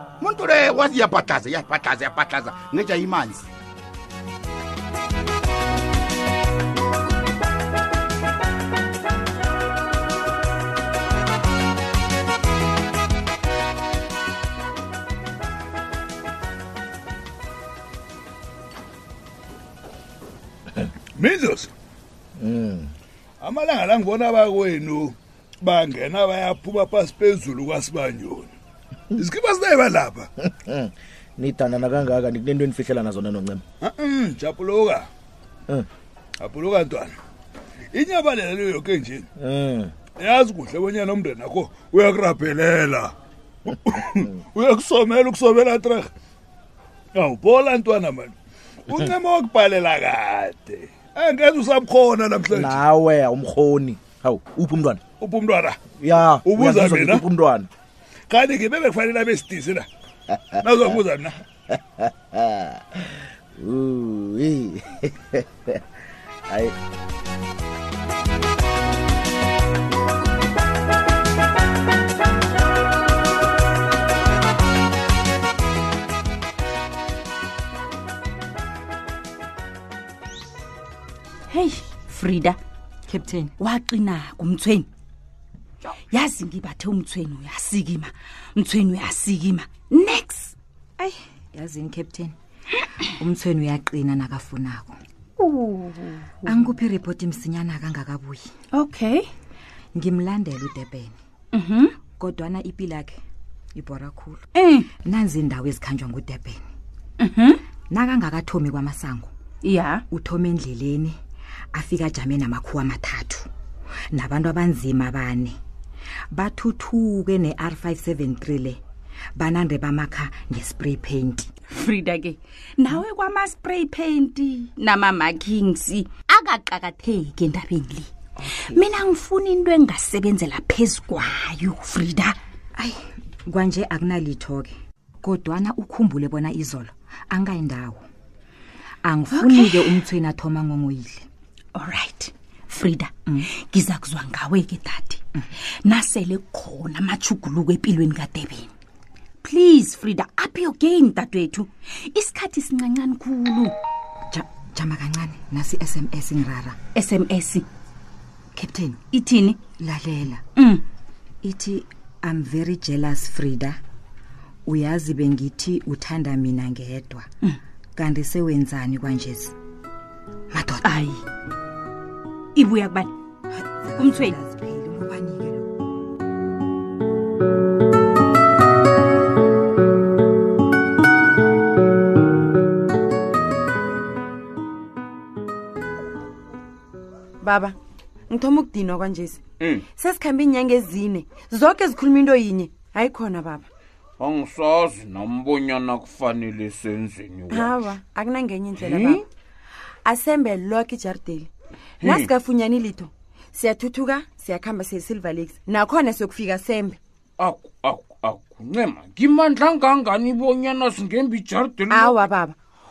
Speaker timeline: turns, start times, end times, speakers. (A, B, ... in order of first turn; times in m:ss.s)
0:00.2-0:03.5 A
0:21.2-0:21.7 B
0:22.4-0:22.9 C
0:23.4-0:28.5 B
0:29.2-0:30.3 B
0:30.6-0:33.6 C
0:33.8-0:35.1 B
0:36.4-0:37.1 B
0:37.9-0:39.3 B
0:39.4-0:39.9 C
0:40.1-0:43.1 B
0:43.8-0:46.1 B
0:47.2-0:48.4 B
0:48.9-0:52.9 B
0:52.5-0:55.0 C
0:55.2-0:57.3 B
0:56.0-0:57.7 C
0:58.3-0:59.9 B
1:00.3-1:01.0 C
1:00.6-1:01.4 B
1:02.4-1:02.8 C
1:03.6-1:05.4 C
1:06.5-1:06.8 C
1:21.5-1:22.6 D
1:23.1-1:23.5 E
1:23.6-1:24.9 D
1:26.1-1:30.5 D
1:31.5-1:32.3 E
1:33.2-1:35.0 E
1:35.4-1:36.7 D
1:36.5-1:38.4 E
1:38.7-1:39.3 D
1:40.0-1:41.1 E
1:41.5-1:42.0 D
1:42.2-1:43.2 E
1:43.8-1:44.4 E
1:44.6-1:44.9 D
1:45.0-1:46.6 E
1:47.2-1:47.6 D
1:47.9-1:49.3 E
1:49.6-1:50.0 D
1:50.1-1:51.2 E
1:51.7-1:53.5 E
1:54.1-1:55.6 E
1:56.3-1:58.8 E
1:59.4-2:01.5 E
2:01.7-2:12.4 D
2:08.5-2:08.8 E
2:13.5-2:14.7 E
2:15.2-2:18.0 E
2:19.0-2:21.2 E
2:19.3-2:20.1 D
2:21.8-2:25.2 D
2:25.8-2:28.7 D
2:29.4-2:33.7 D
2:34.3-2:36.8 E
2:36.9-2:37.6 D
2:38.6-2:39.0 E
2:39.1-2:39.6 D
2:39.8-2:40.4 E
2:40.6-2:40.8 D
2:41.4-2:43.8 E
2:44.7-2:47.2 E
2:48.0-2:49.5 E
2:50.6-2:50.8 E
2:50.8-2:51.2 D
2:52.6-2:53.1 D
2:53.9-2:55.7 E
2:54.0-2:54.4 D
3:07.4-3:07.8 F
3:08.3-3:09.4 F
3:09.9-3:13.7 F
3:14.2-3:17.8 G
3:17.5-3:19.2 F
3:18.8-3:19.2 G
3:20.0-3:21.5 F
3:22.0-3:22.3 G
3:22.0-3:27.0 F
3:27.4-3:32.3 G
3:31.9-3:32.6 F